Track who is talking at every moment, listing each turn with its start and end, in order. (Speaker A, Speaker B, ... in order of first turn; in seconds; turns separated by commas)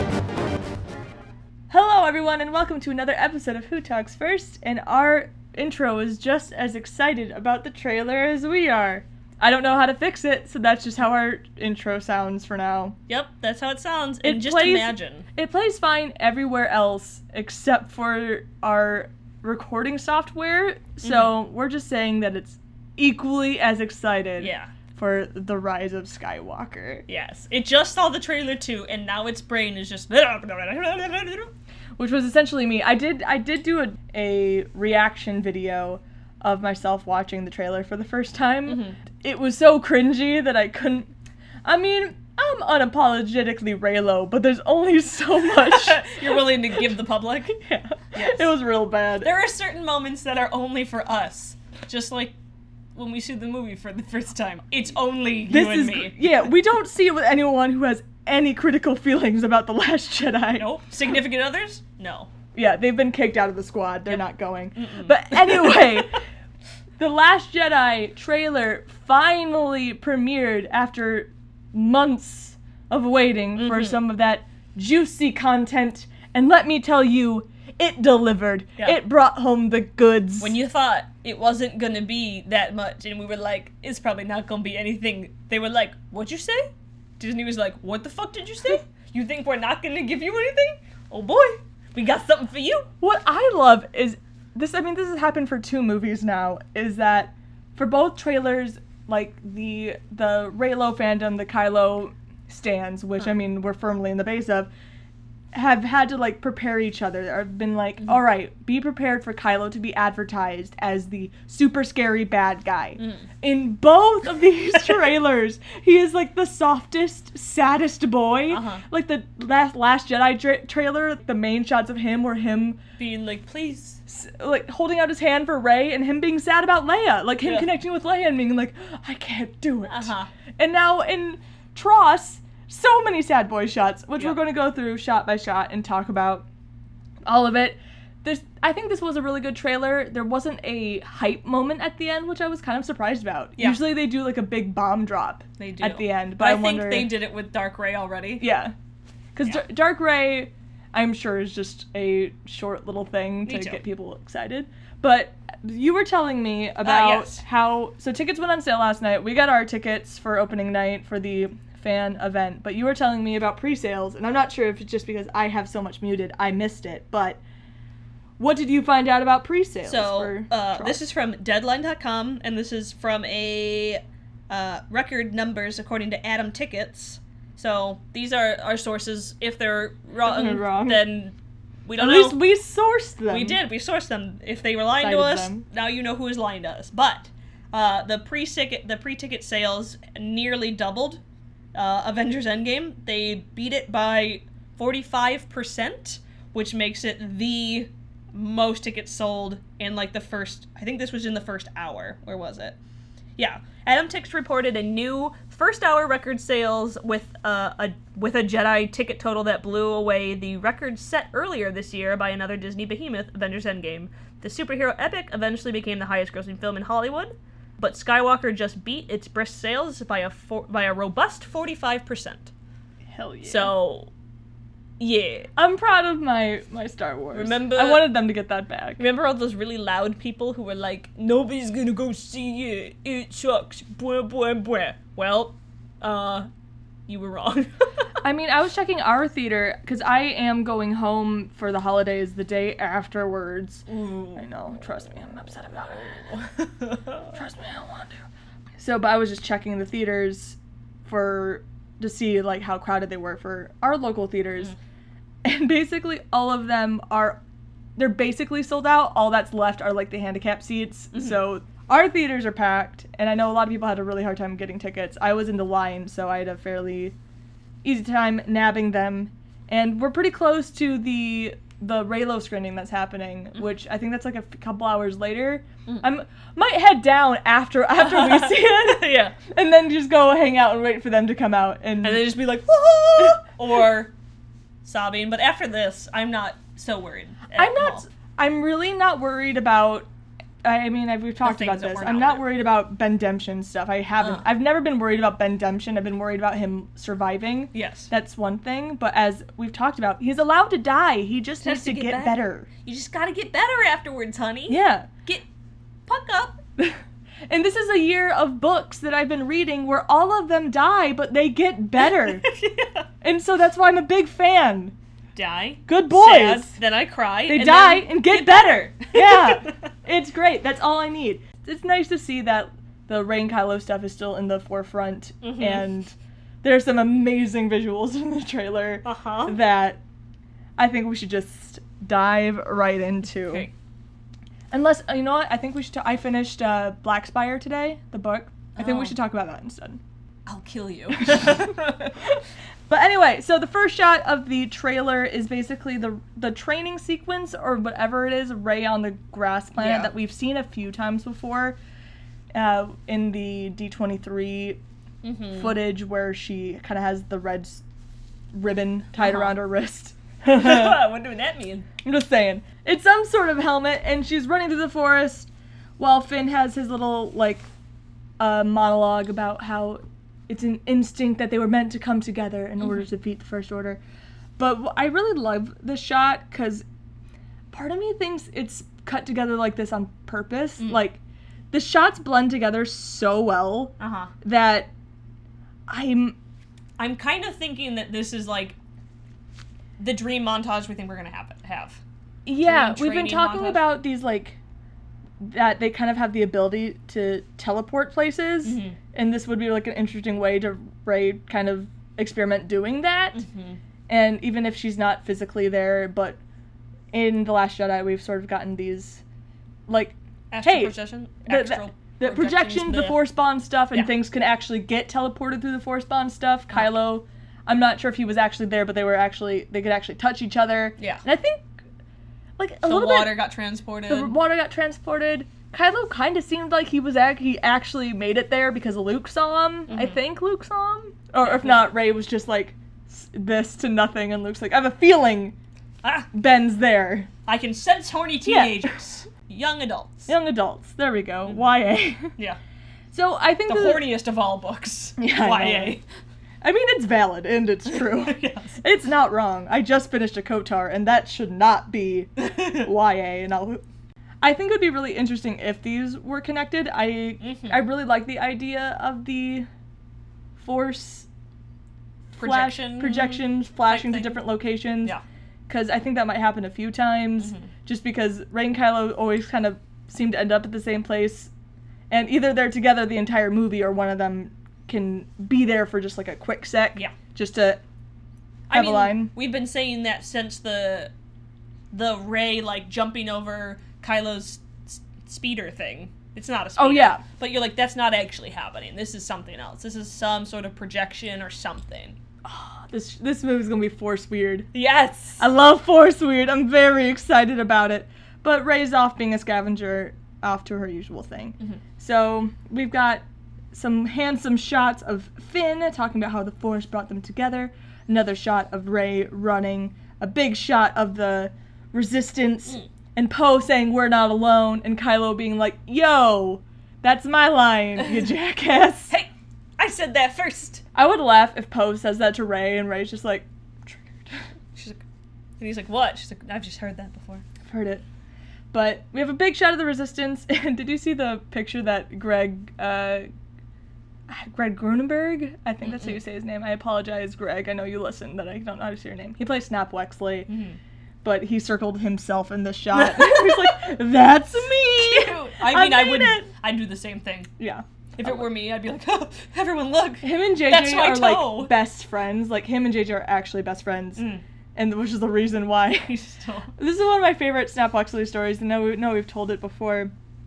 Speaker A: 1.7-13.0, Speaker B: 13.1-15.3, Speaker A: 14.2-27.1, Speaker B: 21.0-21.4, Speaker B: 24.4-24.7, Speaker B: 27.1-31.5, Speaker A: 32.0-41.1, Speaker B: 38.7-39.0, Speaker A: 41.6-46.1, Speaker B: 45.5-47.6, Speaker A: 47.5-49.3, Speaker B: 48.1-48.5, Speaker B: 49.2-52.4, Speaker B: 53.0-56.2, Speaker A: 55.5-60.7, Speaker B: 60.5-62.3, Speaker A: 62.5-66.2, Speaker B: 64.1-65.8, Speaker A: 67.0-80.6, Speaker B: 73.6-74.0, Speaker B: 80.4-92.9, Speaker A: 93.0-104.7, Speaker A: 105.5-122.8, Speaker B: 113.0-113.2, Speaker B: 118.5-118.8, Speaker B: 123.0-124.0, Speaker A: 124.1-136.5, Speaker B: 127.4-127.7, Speaker B: 129.9-130.3, Speaker A: 137.2-147.1, Speaker B: 145.6-148.5, Speaker A: 148.4-148.7, Speaker A: 149.3-167.4, Speaker B: 153.5-153.8, Speaker B: 156.8-157.4, Speaker A: 168.4-171.0, Speaker B: 169.8-182.4, Speaker A: 180.2-181.1, Speaker A: 182.0-183.6, Speaker B: 183.3-191.2, Speaker A: 185.0-185.7, Speaker B: 191.7-202.8, Speaker B: 203.4-222.5, Speaker A: 223.1-223.7, Speaker B: 223.4-224.1, Speaker B: 225.0-225.5, Speaker A: 225.6-229.0, Speaker B: 227.3-228.1, Speaker B: 229.0-236.5, Speaker B: 237.1-237.8, Speaker A: 238.2-246.2, Speaker B: 243.9-244.4, Speaker B: 246.1-247.2, Speaker A: 247.3-248.2, Speaker A: 248.8-254.8, Speaker A: 255.4-257.4, Speaker A: 258.0-267.2, Speaker A: 267.8-282.3, Speaker B: 278.0-279.4, Speaker B: 282.0-284.1, Speaker B: 284.8-288.0, Speaker A: 287.6-290.1, Speaker A: 290.6-302.7, Speaker B: 291.4-292.5, Speaker B: 297.7-298.1, Speaker B: 301.6-305.4, Speaker A: 304.7-305.1, Speaker B: 306.1-306.6, Speaker A: 306.8-312.4, Speaker B: 312.0-313.1, Speaker A: 313.2-314.9, Speaker B: 315.4-319.8, Speaker A: 315.9-316.8, Speaker A: 317.5-330.0, Speaker B: 325.4-325.8, Speaker B: 329.0-329.6, Speaker A: 330.8-333.7, Speaker B: 333.5-333.7, Speaker A: 334.7-340.0, Speaker B: 338.8-339.1, Speaker B: 340.5-342.1, Speaker A: 341.2-341.7, Speaker A: 342.9-351.8, Speaker B: 349.8-350.1, Speaker A: 352.5-354.8, Speaker B: 355.2-355.7, Speaker A: 355.5-357.8, Speaker A: 358.5-361.0, Speaker B: 359.2-359.6, Speaker B: 360.5-361.9, Speaker A: 362.0-367.7, Speaker A: 368.4-374.0, Speaker A: 374.6-376.9, Speaker A: 377.7-381.2, Speaker A: 381.7-384.9, Speaker B: 384.0-384.3, Speaker A: 385.9-386.4, Speaker B: 387.0-388.8, Speaker B: 390.0-392.0, Speaker A: 392.5-394.6, Speaker B: 392.6-393.9, Speaker A: 395.4-403.4, Speaker B: 398.6-399.0, Speaker B: 403.3-403.8, Speaker A: 404.1-406.4, Speaker A: 407.1-409.2, Speaker A: 409.9-410.9, Speaker B: 410.5-413.2, Speaker A: 411.5-421.6, Speaker B: 421.0-421.2, Speaker A: 422.6-423.4, Speaker B: 422.9-424.4, Speaker A: 424.1-435.6, Speaker B: 429.9-430.2, Speaker B: 431.4-431.9, Speaker B: 436.0-436.3, Speaker A: 436.3-437.3, Speaker B: 437.5-440.3, Speaker A: 438.4-438.8, Speaker A: 440.3-442.3, Speaker A: 443.1-444.1, Speaker B: 443.7-446.0, Speaker A: 445.2-446.0, Speaker A: 446.6-453.8, Speaker B: 447.9-448.8, Speaker B: 452.4-452.9, Speaker A: 454.4-459.7, Speaker B: 457.4-457.8, Speaker A: 460.6-461.3, Speaker A: 462.3-465.2, Speaker B: 462.4-464.5, Speaker A: 465.7-471.5, Speaker A: 472.1-477.8, Speaker A: 478.7-479.3, Speaker B: 478.7-481.1, Speaker B: 481.9-492.2, Speaker A: 486.8-487.2, Speaker A: 492.4-494.7, Speaker B: 494.7-495.4, Speaker A: 495.4-519.1, Speaker B: 519.1-520.8, Speaker A: 521.0-524.4, Speaker B: 524.8-525.0, Speaker B: 525.6-527.4, Speaker A: 527.6-528.0, Speaker A: 528.7-533.3, Speaker A: 534.3-540.5, Speaker B: 535.8-536.1, Speaker B: 540.5-540.8, Speaker A: 541.2-546.5, Speaker B: 542.9-543.8, Speaker B: 544.9-547.5, Speaker A: 547.6-548.4, Speaker B: 548.2-551.7, Speaker A: 550.2-554.2, Speaker B: 554.2-554.4, Speaker A: 554.8-556.1, Speaker B: 556.1-556.8, Speaker A: 556.8-560.1